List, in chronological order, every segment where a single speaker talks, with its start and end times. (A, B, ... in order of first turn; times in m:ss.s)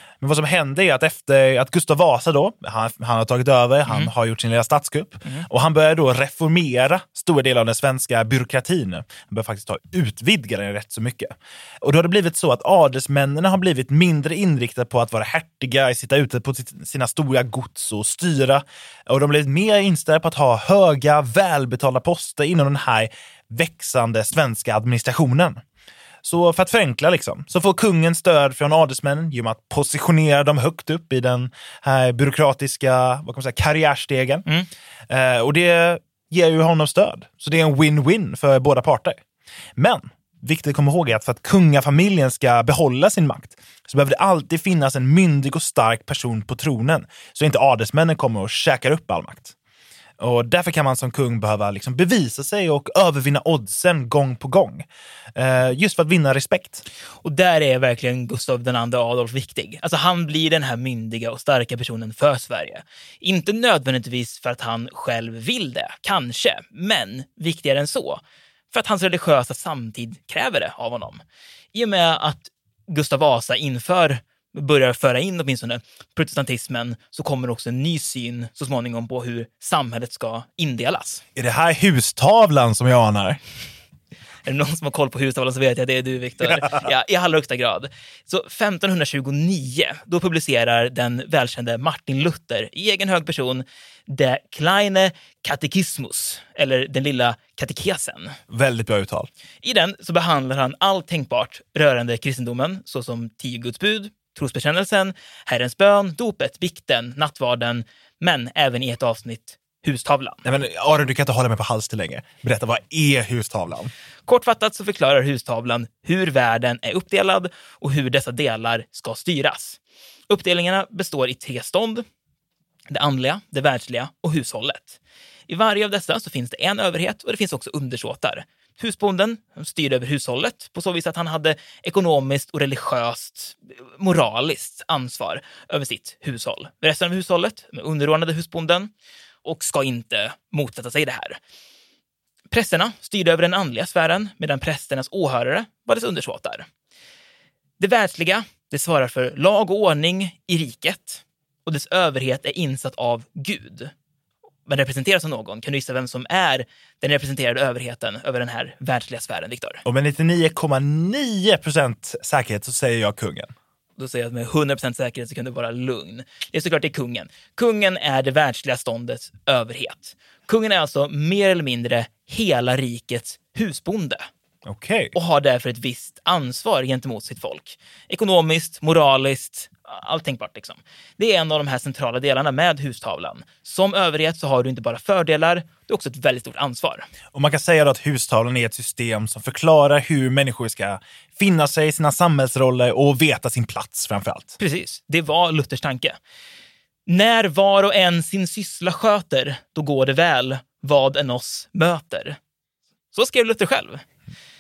0:00.2-0:25.6 A
0:26.2-0:34.5 A
0:35.1-0:39.2 A
0:39.8-0:49.6 A
0:50.2-0:56.8 A
0:57.2-1:11.2 B
1:11.7-1:21.2 B
1:21.4-1:23.4 A
1:24.5-1:38.4 B
1:38.5-1:39.3 A
1:39.6-1:50.4 B
1:50.4-1:53.9 A
1:54.3-2:02.0 B
2:02.9-2:18.9 B
2:19.4-2:21.4 B
2:22.5-2:26.7 B
2:27.8-2:33.9 B
2:34.7-2:39.8 B
2:39.8-2:43.5 A
2:44.0-2:54.3 B
2:54.6-2:55.2 A
2:55.2-3:07.1 B
3:07.3-3:14.6 A
3:14.6-3:16.2 B
3:17.1-3:22.4 B
3:23.1-3:24.0 B